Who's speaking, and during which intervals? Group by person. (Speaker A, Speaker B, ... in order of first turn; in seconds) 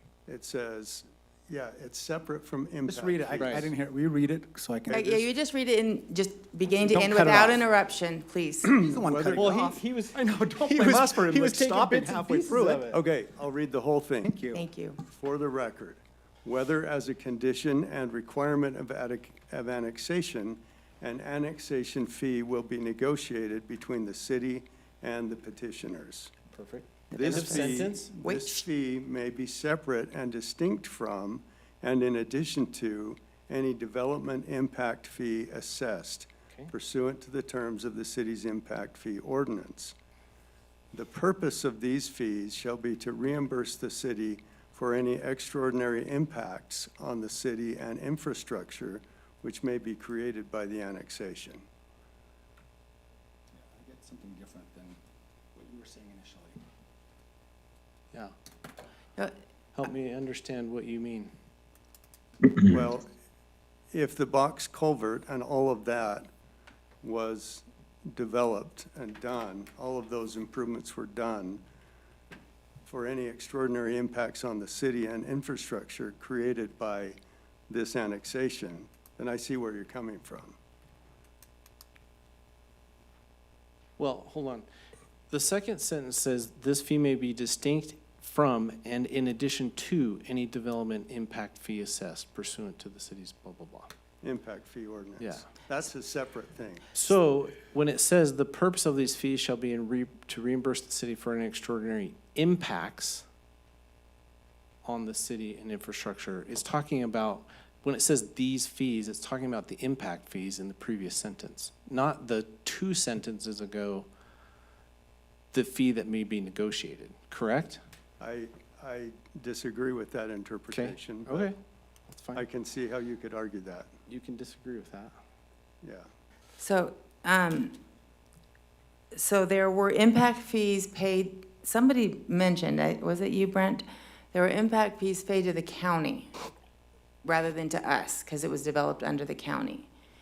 Speaker A: 0.3-3.7, 8.8-9.7, 12.7-14.3, 15.0-26.3, 27.1-40.0, 40.9-51.6, 62.6-63.1, 63.9-66.3, 67.0-71.6, 72.9-77.2, 77.7-80.6, 94.2-97.1, 118.2-121.5, 122.3-123.9
Speaker B: 2.9-5.3, 6.8-7.7, 8.6-13.0, 14.2-14.7, 53.6-55.0, 55.5-56.6
Speaker C: 3.4-3.7, 10.6-12.9, 26.5-28.1, 59.8-61.3, 84.0-84.7, 85.3-93.9, 96.9-103.2, 104.8-114.1, 115.5-117.8, 120.7-121.6, 122.1-122.5, 124.1-125.2
Speaker D: 4.9-8.8, 14.5-15.0, 27.1-28.6, 126.6-127.8, 129.1-136.3, 137.2-139.9